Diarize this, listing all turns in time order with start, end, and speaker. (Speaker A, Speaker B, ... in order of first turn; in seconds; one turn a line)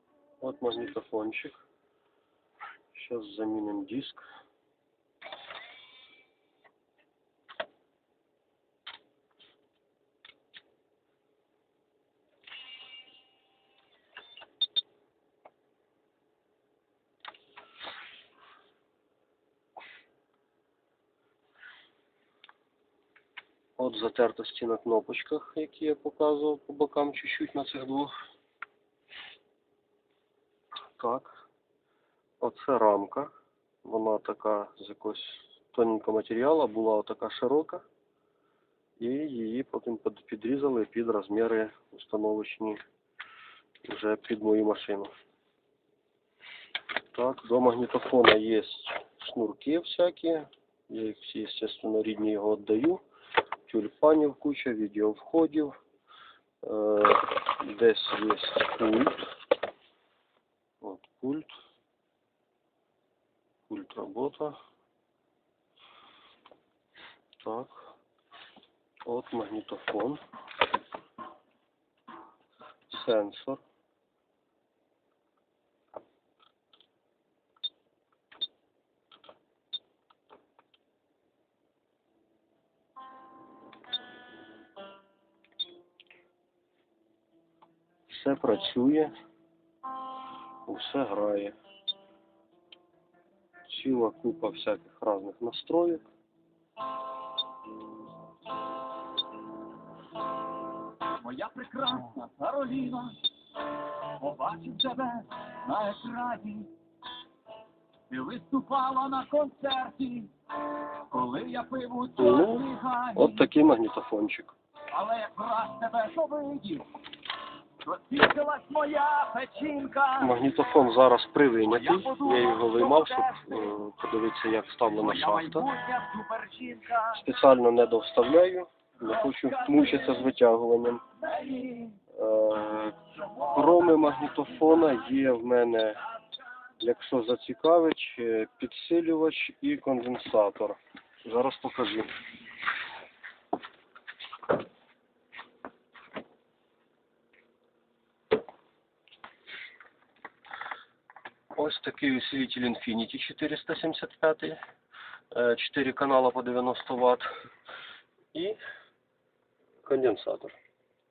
Speaker A: 0.4-1.6
Speaker A: 2.9-4.2
Speaker A: 23.8-28.1
Speaker A: 31.0-31.4
Speaker A: 32.4-33.3
Speaker A: 33.8-37.8
Speaker A: 39.0-42.8
Speaker A: 43.8-45.1
Speaker A: 47.1-53.0
Speaker A: 53.7-55.7
Speaker A: 56.6-59.3
Speaker A: 60.8-61.5
Speaker A: 63.7-64.6
Speaker A: 67.4-67.9
Speaker A: 69.0-70.2
Speaker A: 72.9-73.6
Speaker A: 88.1-89.1
Speaker A: 90.7-91.5
Speaker A: 93.7-96.0
Speaker B: 101.0-106.7
Speaker B: 108.1-113.3
Speaker A: 112.2-114.5
Speaker B: 114.9-117.0
Speaker B: 117.8-120.3
Speaker A: 120.2-125.7
Speaker B: 121.7-123.6
Speaker B: 125.0-127.2
Speaker A: 127.1-131.0
Speaker B: 129.3-130.1
Speaker B: 131.2-132.0
Speaker A: 132.1-136.0
Speaker A: 136.8-142.1
Speaker A: 151.6-154.6
Speaker A: 155.3-157.3
Speaker A: 158.3-158.6
Speaker A: 159.8-160.6